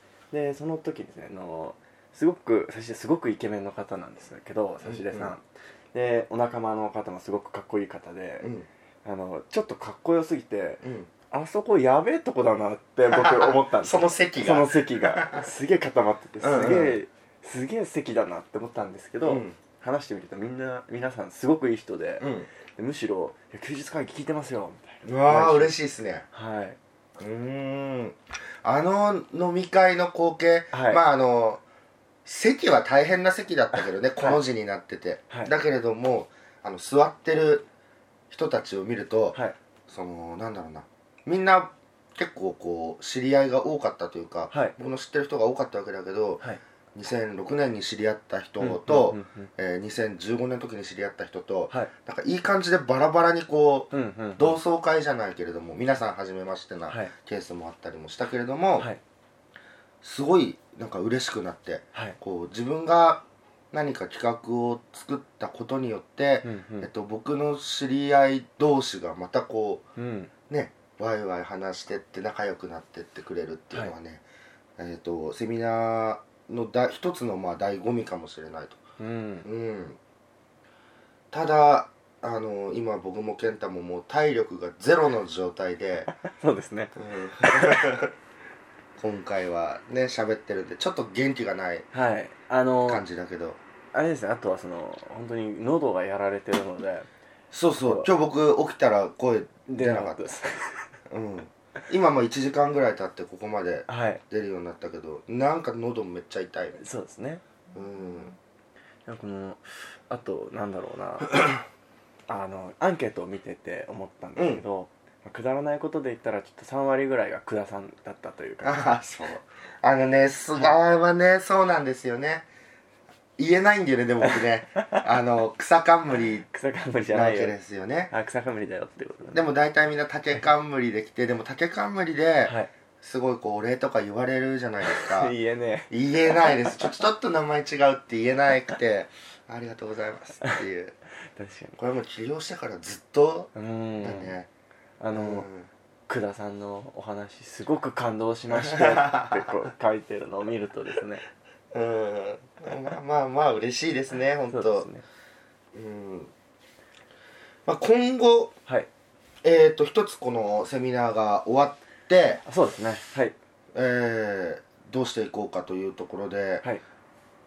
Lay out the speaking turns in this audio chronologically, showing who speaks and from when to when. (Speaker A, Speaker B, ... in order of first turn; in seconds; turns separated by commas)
Speaker A: 0.3-8.5, Speaker B: 4.8-5.3, Speaker B: 8.4-8.7, Speaker A: 9.0-25.7, Speaker B: 10.8-11.1, Speaker B: 13.1-15.5, Speaker B: 16.4-17.0, Speaker B: 19.2-19.6, Speaker B: 22.2-22.5, Speaker B: 25.0-26.2, Speaker A: 26.3-26.8, Speaker B: 27.2-31.6, Speaker A: 30.7-31.0, Speaker B: 32.2-37.7, Speaker B: 38.3-58.9, Speaker A: 44.5-44.7, Speaker A: 48.6-49.5, Speaker A: 53.9-54.6, Speaker A: 56.9-57.1, Speaker B: 60.0-69.8, Speaker A: 66.4-66.9, Speaker A: 70.0-70.3, Speaker B: 70.5-74.2, Speaker B: 74.8-78.8, Speaker A: 79.0-79.5, Speaker B: 79.4-80.0, Speaker B: 81.3-86.1, Speaker A: 86.2-87.9, Speaker B: 87.0-88.1, Speaker B: 89.0-91.9, Speaker A: 91.9-93.0, Speaker B: 92.9-93.6, Speaker A: 93.9-97.1, Speaker B: 97.5-100.3, Speaker A: 97.8-98.1, Speaker A: 99.7-100.9, Speaker B: 101.1-106.8, Speaker A: 103.9-104.2, Speaker A: 106.8-107.4, Speaker B: 107.7-108.4, Speaker A: 109.0-111.4, Speaker A: 112.3-118.8, Speaker B: 114.3-114.6, Speaker B: 118.6-122.5, Speaker B: 123.4-126.5, Speaker A: 124.2-125.0, Speaker A: 126.4-127.5, Speaker B: 127.1-128.1, Speaker A: 128.1-129.4, Speaker B: 129.3-135.3, Speaker A: 132.4-132.7, Speaker A: 134.8-136.7, Speaker B: 135.9-140.9, Speaker A: 141.3-141.8, Speaker B: 141.8-144.5, Speaker A: 143.5-144.4, Speaker A: 145.0-145.5, Speaker B: 145.1-145.7, Speaker A: 146.1-151.2, Speaker B: 148.5-149.4, Speaker B: 151.7-154.9, Speaker A: 154.5-155.0, Speaker B: 155.7-156.3, Speaker B: 157.7-158.5, Speaker B: 159.4-162.4, Speaker A: 162.4-163.3, Speaker B: 163.7-166.7